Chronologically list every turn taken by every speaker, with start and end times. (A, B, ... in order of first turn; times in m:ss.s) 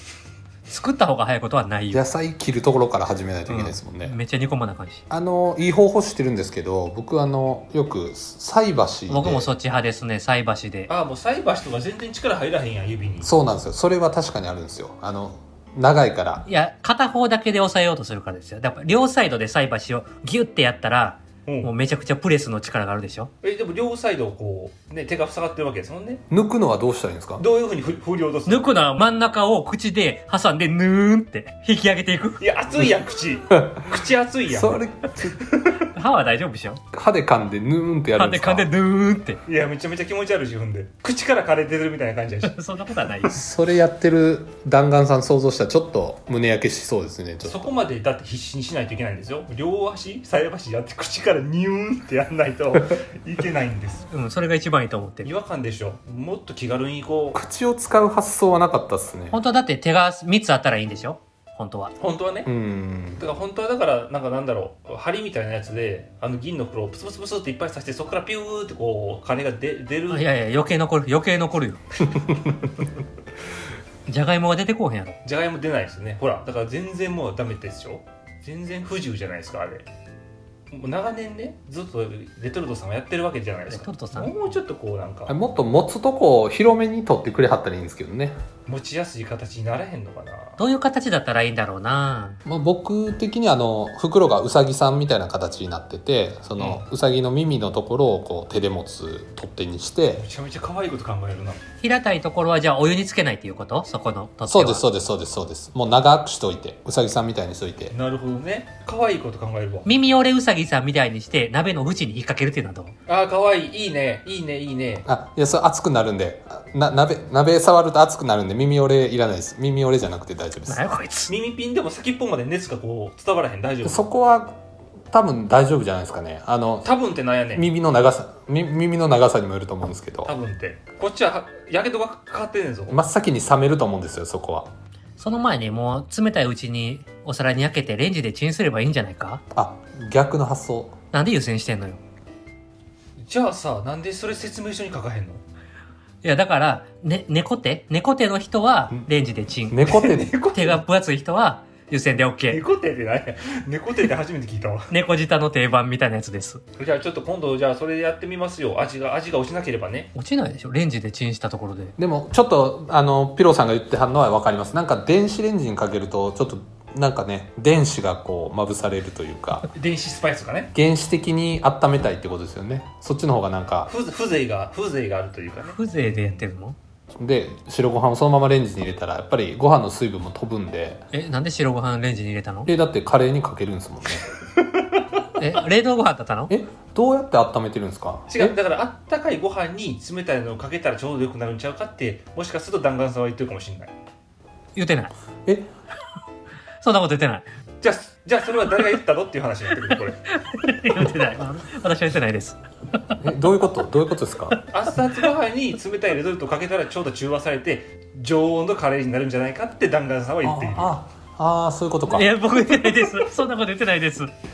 0:00.7-0:02.0 A
0:01.9-0:04.1 B
0:03.5-0:05.0 A
0:05.1-0:09.5 B
0:09.1-0:10.9 A
0:10.9-0:13.3 C
0:13.2-0:16.4 B
0:16.4-0:23.3 A
0:21.4-0:21.7 C
0:23.4-0:26.2 C
0:26.3-0:27.4 B
0:27.4-0:28.7 C
0:28.4-0:32.4 A
0:32.4-0:34.8 C
0:33.5-0:33.9 B
0:34.5-0:35.4 B
0:35.9-0:36.8 A
0:36.9-0:38.7 B
0:38.1-0:39.4 A
0:39.4-0:42.6 C
0:42.4-0:43.4 A
0:43.3-0:47.7 B
0:47.4-0:54.1 C
0:54.1-0:55.3 A
0:55.2-0:57.4 C
0:57.3-0:59.4 B
0:59.3-1:01.9 A
1:02.0-1:02.5 C
1:02.4-1:03.2 B
1:03.2-1:10.3 C
1:10.1-1:11.8 A
1:14.1-1:15.2 A
1:15.2-1:19.9 C
1:20.7-1:25.4 C
1:23.7-1:24.3 A
1:25.3-1:28.4 B
1:28.7-1:30.6 C
1:30.6-1:32.4 A
1:32.4-1:40.2 B
1:36.6-1:36.8 C
1:40.2-1:41.6 C
1:41.8-1:44.8 A
1:44.5-1:47.9 B
1:47.9-1:49.9 C
1:49.8-1:52.9 A
1:53.1-1:55.0 C
1:55.0-2:00.8 B
2:00.7-2:01.3 A
2:01.3-2:04.0 C
2:03.8-2:04.6 B
2:05.1-2:06.9 B
2:06.8-2:07.7 C
2:07.5-2:10.3 B
2:10.2-2:13.0 C
2:12.9-2:14.7 B
2:15.2-2:19.4 A
2:19.5-2:20.9 B
2:21.1-2:22.0 A
2:23.2-2:25.4 C
2:26.2-2:29.8 A
2:29.7-2:30.3 B
2:29.8-2:30.8 C
2:30.5-2:32.6 A
2:32.5-2:34.9 C
2:34.9-2:36.6 A
2:36.8-2:40.1 C
2:40.1-2:41.9 A
2:42.0-2:49.7 B
2:49.7-2:50.7 C
2:50.7-2:53.9 B
2:53.9-2:56.5 C
2:55.6-2:56.8 A
2:57.2-3:01.0 B
3:01.1-3:02.7 A
3:02.6-3:04.3 B
3:05.4-3:06.5 A
3:06.5-3:08.5 B
3:08.3-3:13.9 C
3:14.7-3:15.1 A
3:16.8-3:17.4 A
3:17.8-3:20.2 C
3:20.3-3:22.6 A
3:23.2-3:24.6 B
3:24.7-3:31.0 C
3:30.4-3:32.3 B
3:32.1-3:34.3 A